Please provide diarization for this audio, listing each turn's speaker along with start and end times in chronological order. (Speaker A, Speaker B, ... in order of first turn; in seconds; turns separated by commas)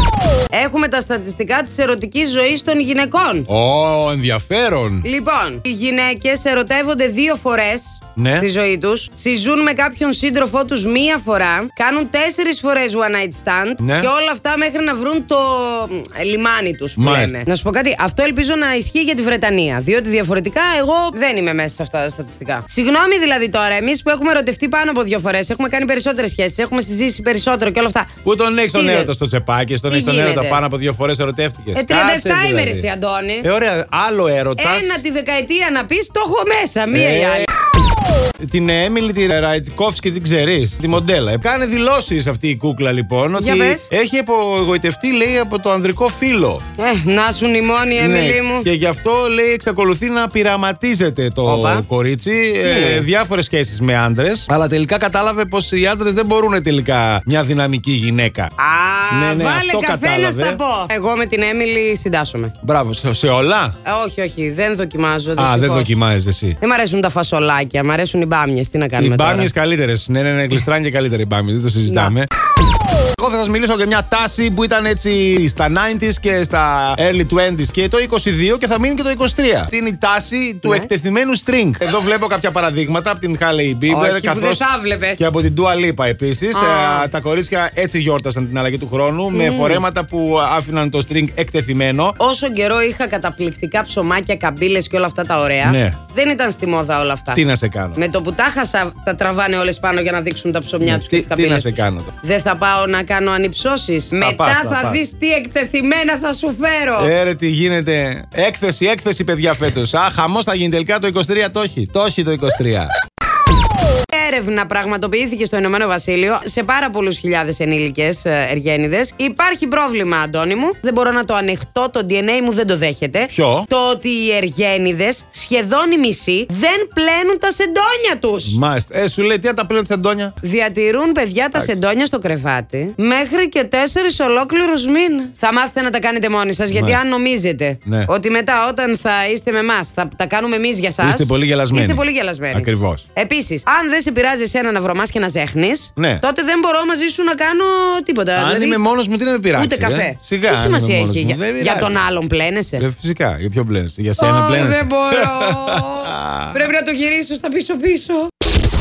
Speaker A: 0.5-3.5, Speaker B: 3.5-5.0, Speaker A: 5.0-28.1, Speaker B: 8.2-8.5, Speaker B: 13.8-14.1, Speaker B: 17.0-17.4, Speaker B: 28.2-32.9, Speaker A: 28.7-29.1, Speaker A: 29.9-30.6, Speaker A: 31.7-33.5, Speaker B: 33.4-35.0, Speaker A: 34.6-37.5, Speaker B: 36.9-37.5, Speaker B: 38.4-46.6, Speaker A: 43.4-43.9, Speaker A: 46.8-48.7, Speaker B: 48.0-58.5, Speaker A: 51.4-51.8, Speaker A: 52.6-53.0, Speaker A: 58.6-62.5, Speaker B: 59.1-60.6, Speaker B: 62.6-63.7, Speaker A: 63.8-66.0, Speaker B: 65.4-66.6, Speaker A: 66.6-69.5, Speaker B: 69.0-72.3, Speaker A: 71.9-72.1, Speaker B: 73.2-84.6, Speaker A: 80.6-80.9, Speaker A: 83.9-85.3, Speaker B: 85.2-92.2, Speaker A: 86.5-87.1, Speaker A: 89.3-89.8, Speaker A: 92.2-97.4, Speaker B: 95.6-96.0, Speaker B: 97.3-98.0, Speaker A: 98.0-107.1, Speaker B: 100.8-102.1, Speaker B: 104.1-105.0, Speaker B: 107.0-112.9, Speaker A: 114.1-128.6, Speaker B: 123.3-123.7, Speaker B: 128.5-130.4, Speaker A: 130.4-148.8, Speaker B: 136.7-137.0, Speaker B: 141.0-143.0, Speaker B: 146.0-146.2, Speaker B: 148.3-152.0, Speaker A: 149.5-152.8, Speaker B: 152.8-156.7, Speaker A: 154.2-158.3